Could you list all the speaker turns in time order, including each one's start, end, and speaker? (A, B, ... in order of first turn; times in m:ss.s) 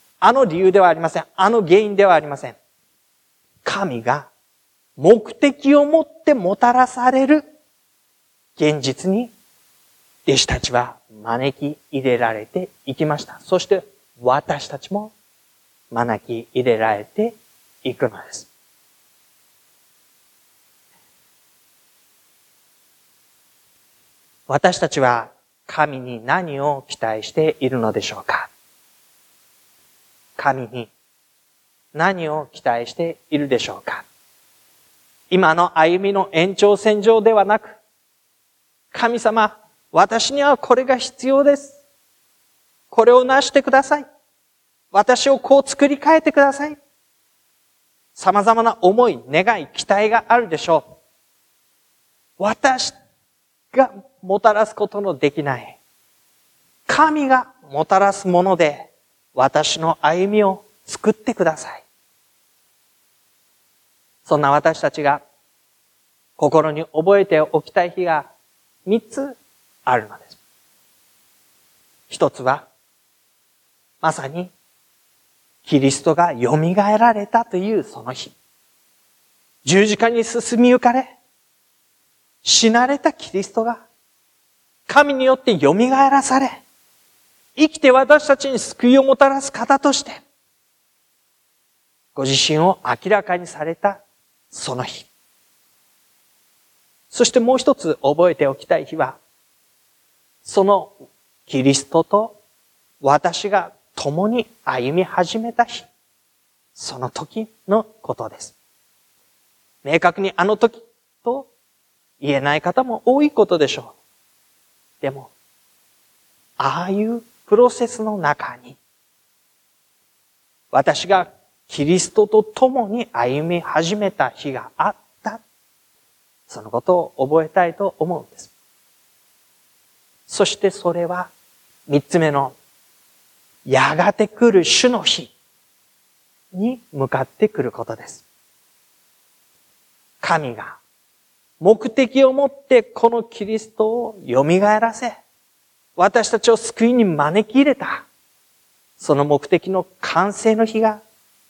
0:00.2-0:02.6 A
0:03.6-0:04.3 A
0:05.0-0:07.5 A
0:08.6-0:09.3 A
0:10.3-0:15.2 A
0:15.9-0:18.5 A
0:24.5-0:28.5 A
0:30.4-0:30.9 A
0:31.9-0:34.1 A
0:35.3-0:37.8 A
0:38.9-0:41.8 A
0:42.9-0:44.0 A
0:44.9-0:46.8 A
0:48.2-0:51.0 A
0:52.4-0:53.0 A
0:53.7-0:55.8 A
0:56.9-1:01.8 A
1:04.2-1:05.2 A
1:06.4-1:08.3 A
1:08.9-1:10.4 A
1:12.1-1:12.7 A
1:14.0-1:14.5 A
1:15.6-1:18.4 A
1:19.6-1:21.2 A
1:22.4-1:23.9 A
1:24.9-1:26.6 A
1:27.6-1:30.2 A
1:32.2-1:35.1 A
1:37.1-1:39.2 A
1:40.4-1:42.4 A
1:43.0-1:45.9 A
1:46.8-1:48.6 A
1:49.8-1:51.5 A
1:52.2-1:54.0 A
1:55.0-1:55.3 A
1:56.6-1:58.8 A
2:00.7-2:05.4 A
2:06.5-2:08.5 A
2:10.3-2:11.3 A
2:11.9-2:12.6 A
2:13.7-2:15.3 A
2:16.5-2:18.2 A
2:20.2-2:20.8 A
2:21.6-2:25.2 A
2:26.0-2:28.1 A
2:29.0-2:31.0 A